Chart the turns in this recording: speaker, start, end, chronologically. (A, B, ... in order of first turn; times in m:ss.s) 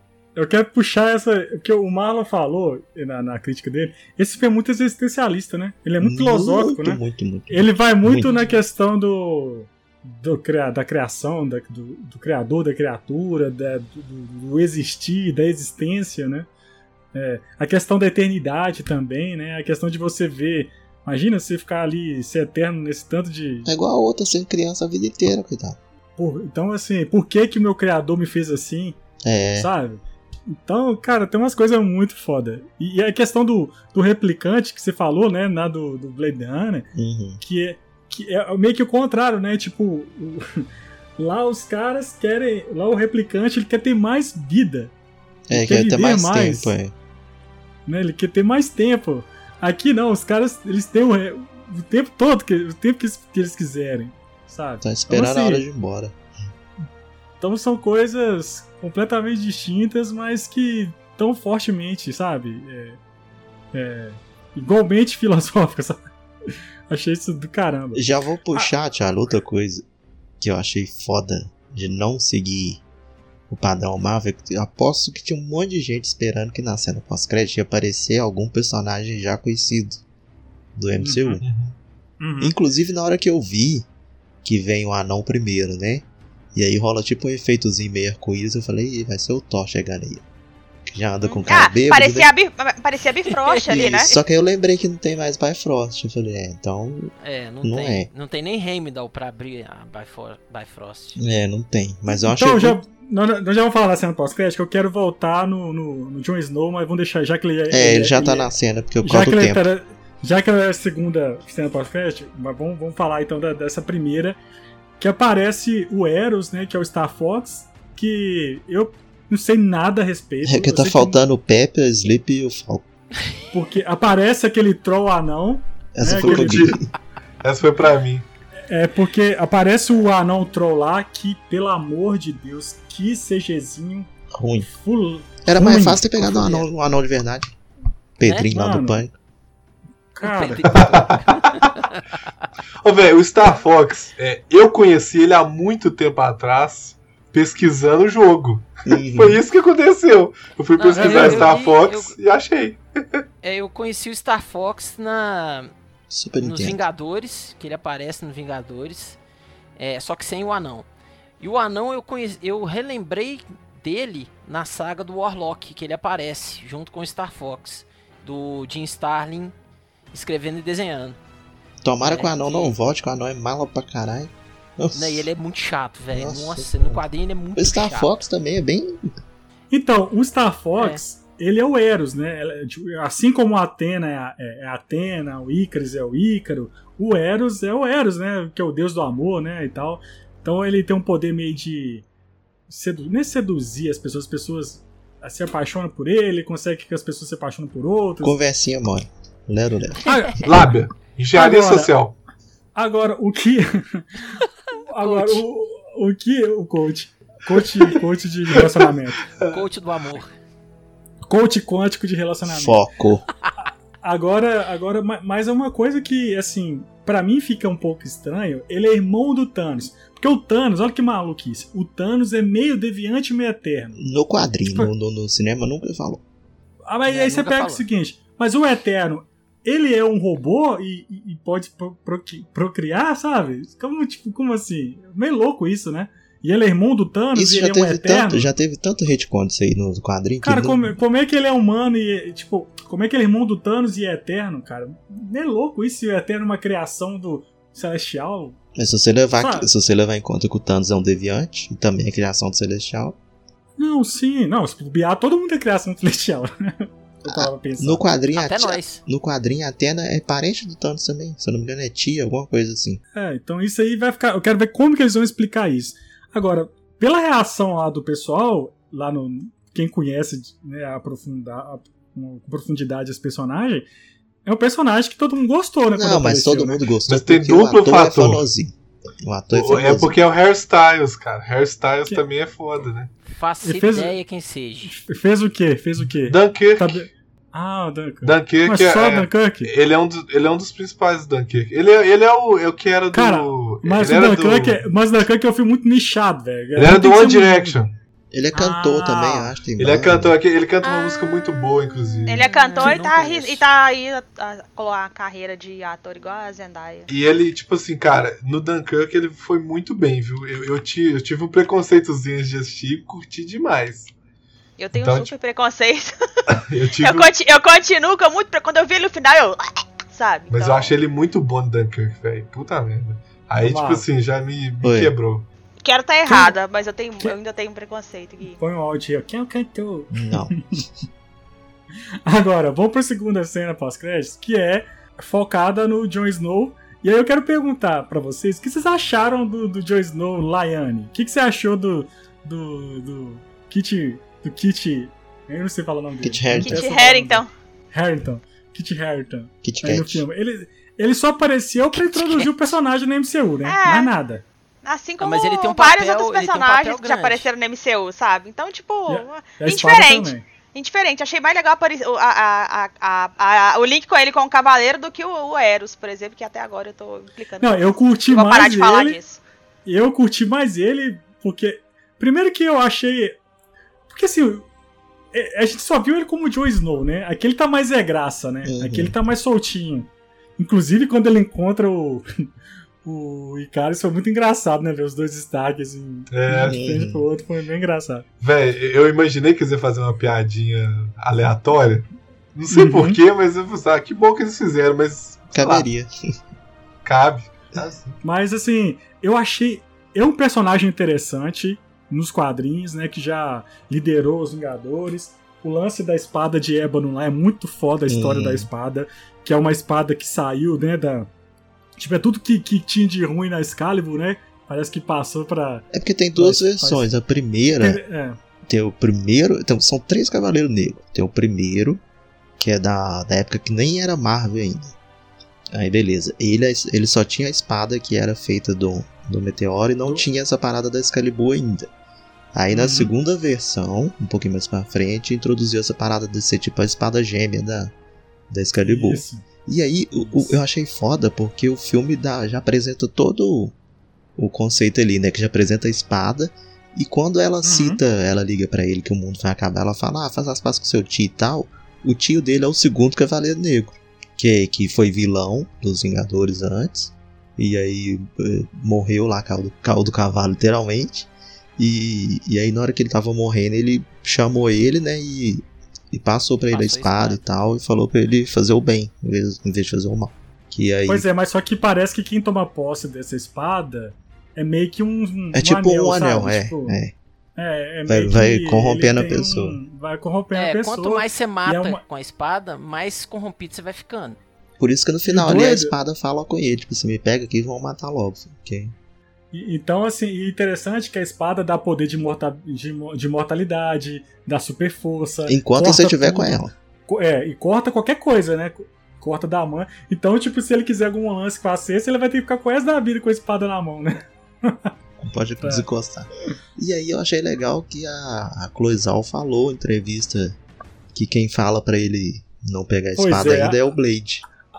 0:00.4-0:16.5 A
0:06.0-0:08.3 B
0:17.1-0:23.7 A
0:23.6-0:25.8 B
0:26.2-0:29.0 A
0:29.2-0:29.7 B
0:29.6-0:36.9 A
0:37.0-0:37.4 B
0:37.4-0:40.7 A
0:41.2-0:44.9 A
0:45.5-0:46.9 B
0:45.5-0:46.7 A
0:47.9-0:55.6 A
0:54.8-0:56.2 B
0:57.4-1:03.0 A
1:03.7-1:06.0 A
1:06.9-1:08.0 A
1:07.9-1:09.8 B
1:10.4-1:12.8 B
1:13.5-1:20.0 B
1:20.8-1:21.4 B
1:21.0-1:21.4 A
1:21.4-1:21.8 C
1:22.2-1:22.5 A
1:22.4-1:23.9 B
1:24.4-1:30.2 B
1:30.9-1:32.3 B
1:31.3-1:34.1 D
1:33.3-1:34.1 E
1:33.7-1:37.1 B
1:37.2-1:41.2 E
1:37.6-1:38.1 B
1:41.2-1:42.8 B
1:42.1-1:48.5 A
1:47.7-1:49.7 B
1:49.0-1:54.4 A
1:55.0-2:01.2 A
2:00.4-2:02.9 B
2:03.5-2:06.7 A
2:06.0-2:06.8 B
2:06.1-2:06.8 C
2:07.4-2:08.2 C
2:08.7-2:14.1 A
2:14.3-2:14.7 B
2:14.7-2:16.7 A
2:15.4-2:17.5 B
2:18.2-2:19.1 B
2:18.5-2:19.0 A
2:20.2-2:20.6 A
2:20.2-2:22.2 E
2:20.6-2:21.6 C
2:22.8-2:32.8 C
2:28.9-2:29.4 B
2:30.8-2:32.2 E
2:31.0-2:31.5 A
2:33.4-2:35.7 E
2:36.1-2:36.8 B
2:36.4-2:39.2 E
2:39.8-2:40.9 E
2:41.4-2:49.5 E
2:50.1-2:51.2 E
2:51.8-2:55.3 B
2:52.0-2:52.7 E
2:54.9-2:58.2 E
2:56.1-2:57.0 B
2:57.6-2:59.1 B
2:59.7-3:12.0 A
3:12.7-3:18.4 A
3:18.2-3:20.0 B
3:20.0-3:20.6 A
3:20.4-3:22.2 C
3:21.3-3:21.9 A
3:22.8-3:29.2 A
3:25.0-3:25.4 E
3:29.5-3:30.3 E
3:31.3-3:32.8 A
3:32.4-3:33.2 B
3:34.0-3:44.0 A
3:44.0-3:46.2 B
3:46.9-3:58.5 A
3:47.1-3:47.8 E
3:57.4-4:00.9 B
4:00.4-4:08.6 A
4:08.8-4:13.2 B
4:09.4-4:09.7 A
4:13.8-4:18.1 A
4:17.2-4:23.0 B
4:18.4-4:19.0 E
4:23.2-4:33.9 A
4:34.5-4:36.9 A
4:35.9-4:40.1 B
4:37.1-4:38.5 C
4:39.5-4:43.1 C
4:43.3-4:45.0 E
4:43.6-4:44.2 A
4:44.9-4:49.7 A
4:46.2-4:47.1 C
4:48.2-4:54.9 C
4:53.1-4:57.8 A
4:56.8-4:57.9 C
4:58.3-5:00.3 B
4:58.5-4:59.5 A
4:59.8-5:02.5 C
5:02.3-5:07.1 D
5:02.4-5:03.6 E
5:07.1-5:14.1 C
5:14.8-5:16.4 D
5:14.9-5:15.3 C
5:16.5-5:17.3 C
5:17.0-5:21.0 D
5:20.5-5:25.5 C
5:23.6-5:24.1 A
5:24.8-5:25.1 B
5:25.8-5:28.6 D
5:26.3-5:26.5 A
5:28.6-5:30.9 A
5:30.1-5:30.6 B
5:32.3-5:54.4 A
5:46.2-5:46.9 B
5:46.6-5:47.5 D
5:49.6-5:50.3 B
5:51.9-5:52.5 E
5:53.6-5:54.2 D
5:54.8-6:09.4 D
5:55.2-5:57.5 E
5:59.1-6:00.4 A
6:07.6-6:09.2 A
6:09.9-6:13.4 A
6:14.1-6:14.7 A
6:15.3-6:22.2 A
6:18.6-6:19.2 B
6:23.0-6:28.2 A
6:26.3-6:26.8 C
6:26.6-6:27.3 B
6:28.4-6:35.9 C
6:32.7-6:33.2 A
6:35.5-6:36.1 B
6:37.0-6:38.1 C
6:38.2-6:51.3 A
6:48.1-6:48.7 B
6:52.0-6:57.1 A
6:55.9-6:58.0 B
6:57.8-6:58.4 A
6:58.7-7:02.0 B
7:02.6-7:05.0 B
7:05.7-7:11.9 B
7:12.5-7:17.9 B
7:12.7-7:13.1 A
7:18.5-7:23.8 B
7:18.8-7:19.5 A
7:20.2-7:20.6 A
7:24.4-7:51.2 B
7:27.6-7:28.0 A
7:46.7-7:47.4 E
7:51.1-7:57.0 A
7:55.5-7:57.1 B
7:57.6-8:02.0 A
7:58.1-7:59.8 B
8:00.5-8:04.4 E
8:04.8-8:08.9 B
8:05.2-8:06.0 A
8:09.5-8:24.9 A
8:15.5-8:16.7 B
8:25.2-8:30.6 B
8:25.6-8:25.8 A
8:31.1-8:34.4 B
8:33.2-8:33.9 A